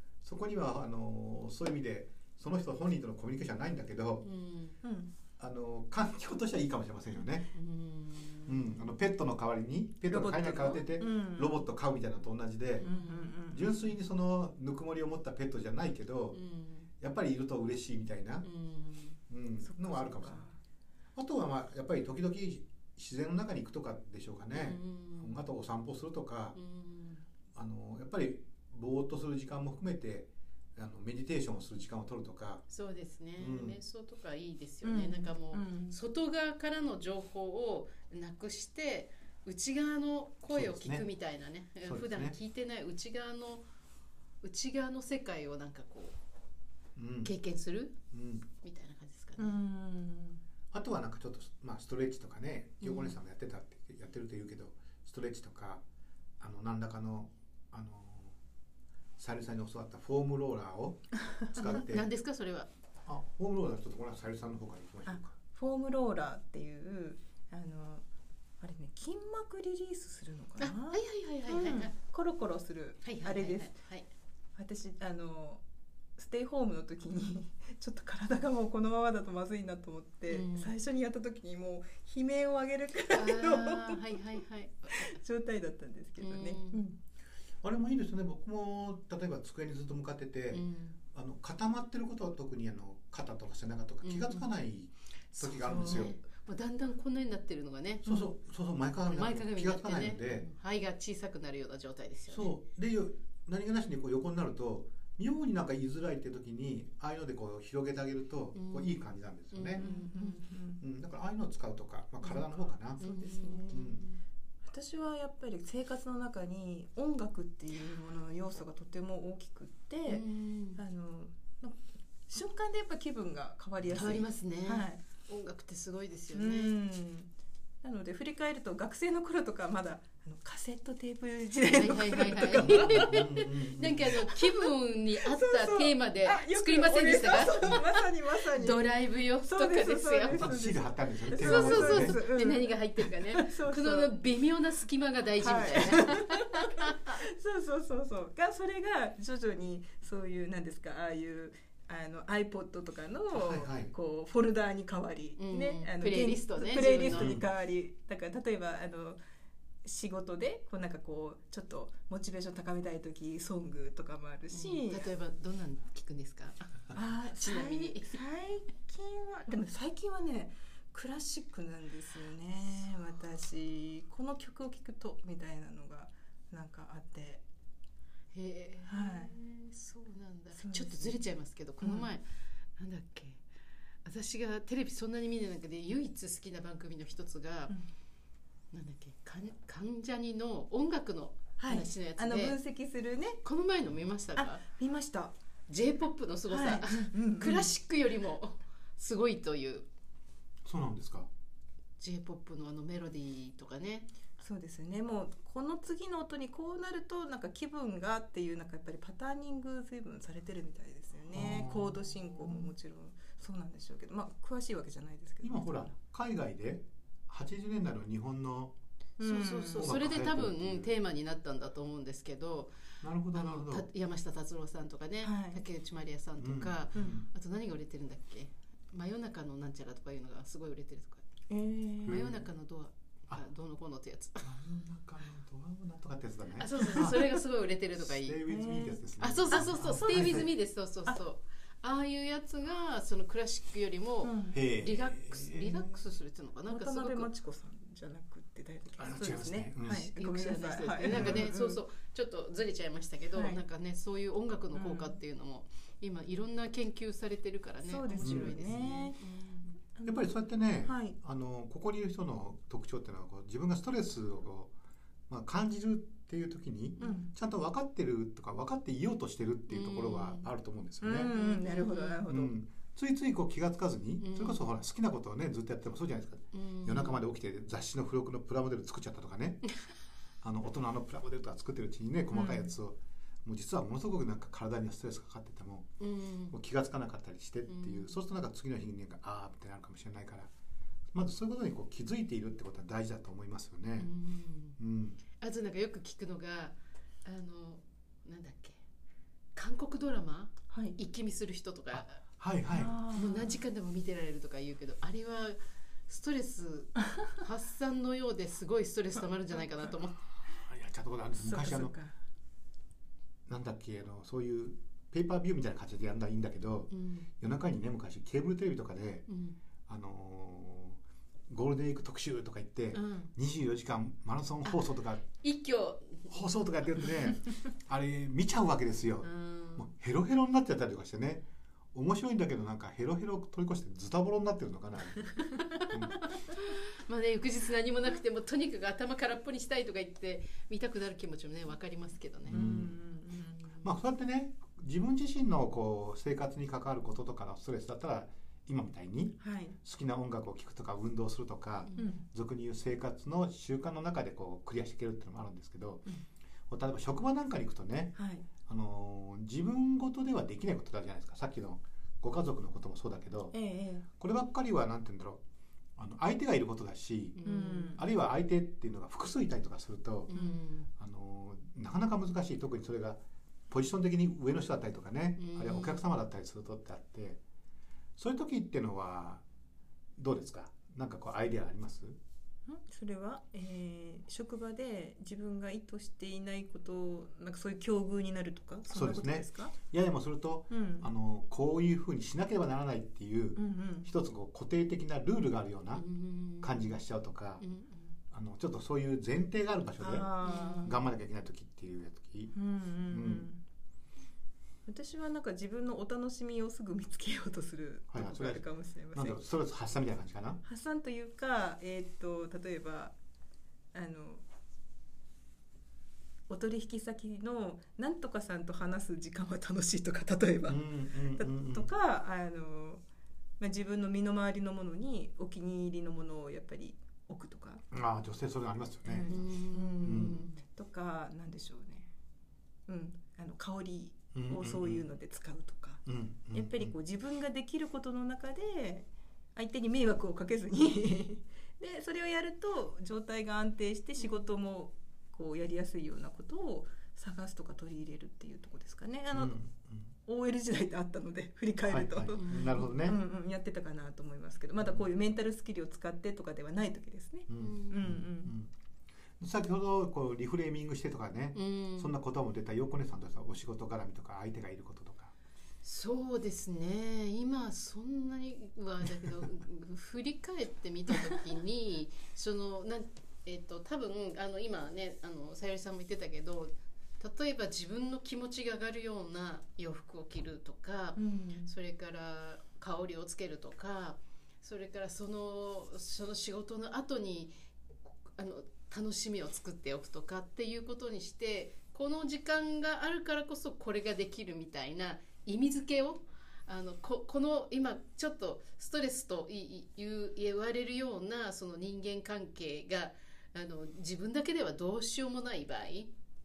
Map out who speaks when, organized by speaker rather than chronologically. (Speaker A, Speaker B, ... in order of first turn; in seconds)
Speaker A: 0.2-4.3, 5.4-7.5, 8.5-12.9, 13.5-16.4, 17.0-18.5, 19.3-20.4, 21.2-26.6, 27.5-32.6, 33.4-33.8, 40.5-41.1, 41.8-42.4, 47.0-47.3, 48.1-48.5, 50.7-55.8, 56.4-58.4, 59.2-62.1, 63.1-65.3, 87.6-96.2, 98.0-100.5, 102.3-109.9, 110.8-113.0, 113.7-114.0, 123.8-124.2, 132.6-134.2, 140.3-142.2, 153.3-153.9, 157.1-157.4, 200.7-201.3, 211.3-212.7, 215.4-218.7, 219.8-220.9, 223.0-223.9, 226.4-227.3, 232.1-232.5, 234.4-237.4, 237.9-240.5, 244.5-246.0, 249.0-250.1, 251.1-251.5, 258.2-258.8, 260.1-264.7, 265.3-271.3, 272.3-279.6, 280.4-285.9, 286.5-290.5, 291.1-294.1, 294.8-295.2, 301.9-303.0, 310.5-311.9, 313.5-319.3, 319.9-325.3, 326.3-336.2, 342.5-342.9, 343.8-356.1, 356.7-363.6, 364.2-365.4, 366.0-367.4, 367.9-370.3, 371.0-377.4, 378.2-379.4, 380.2-382.2, 388.9-396.1, 396.6-397.6, 398.3-402.6, 403.1-403.5, 408.1-410.6, 420.7-421.9, 427.9-429.4, 430.0-430.4, 434.3-435.1, 436.1-436.9, 449.3-450.1, 451.9-453.2, 457.5-458.7, 459.4-465.3
Speaker B: 4.2-4.8, 7.5-8.8, 12.8-13.3, 16.3-16.9, 18.4-19.2, 24.5-25.4, 26.6-27.2, 32.7-43.6, 44.4-46.2, 47.2-48.0, 48.6-49.6, 52.8-53.2, 61.5-62.7, 70.6-71.9, 73.0-74.1, 80.3-80.7, 83.1-85.2, 86.2-86.8, 90.5-91.0, 94.0-94.5, 95.3-98.3, 99.1-102.5, 108.5-110.3, 113.0-114.2, 120.1-120.8, 123.9-126.8, 131.7-140.6, 141.3-147.2, 155.4-157.4, 164.5-168.2, 178.3-182.2, 182.8-183.4, 184.0-187.7, 188.7-192.6, 193.4-194.6, 195.7-199.9, 202.0-204.1, 219.2-222.8, 223.3-231.2, 232.1-234.5, 236.6-238.4, 239.2-247.3, 249.9-259.6, 269.7-270.5, 271.2-272.2, 274.2-274.6, 276.5-277.2, 286.0-286.6, 287.7-288.2, 294.0-294.8, 295.4-298.8, 299.6-302.2, 303.1-310.2, 316.9-317.3, 319.3-319.6, 322.9-323.3, 325.4-326.3, 329.2-329.9, 335.4-342.7, 367.4-368.0, 370.3-370.9, 375.4-376.0, 395.9-396.9, 397.6-398.1, 400.4-401.0, 429.3-430.6, 452.4-452.8, 457.6-458.1, 461.6-462.1, 465.8-487.5, 488.4-506.1
Speaker C: 4.8-5.1, 10.1-11.6, 12.8-13.7, 19.6-20.6, 34.8-36.0, 49.4-50.4, 65.1-68.0, 68.6-73.8, 74.6-75.6, 76.2-84.2, 84.9-87.0, 109.8-110.8, 112.3-113.8, 114.6-125.0, 126.3-127.3, 127.8-133.2, 134.3-134.7, 135.2-138.9, 139.4-144.1, 145.4-159.2, 159.8-165.1, 166.9-177.4, 178.8-179.3, 180.6-181.2, 181.8-182.1, 191.6-193.4, 194.4-195.3, 196.5-197.7, 204.4-215.9, 219.2-219.9, 225.2-225.6, 231.5-232.2, 236.8-237.1, 238.5-240.2, 244.2-244.6, 246.7-251.8, 253.3-253.6, 254.7-255.2, 257.9-260.3, 260.8-261.2, 267.0-267.3, 271.0-272.6, 282.3-282.7, 300.7-301.0, 302.7-303.6, 311.4-312.2, 342.5-343.7, 349.4-349.8, 352.0-352.2, 358.2-358.5, 363.5-364.1, 367.4-368.0, 370.3-370.6, 382.7-389.8, 390.7-391.1, 393.6-394.1, 400.0-401.0, 402.5-403.6, 404.9-409.4, 410.6-413.1, 413.9-414.4, 416.5-423.0, 423.6-427.8, 429.1-432.1, 432.9-449.6, 450.2-458.5, 481.2-481.7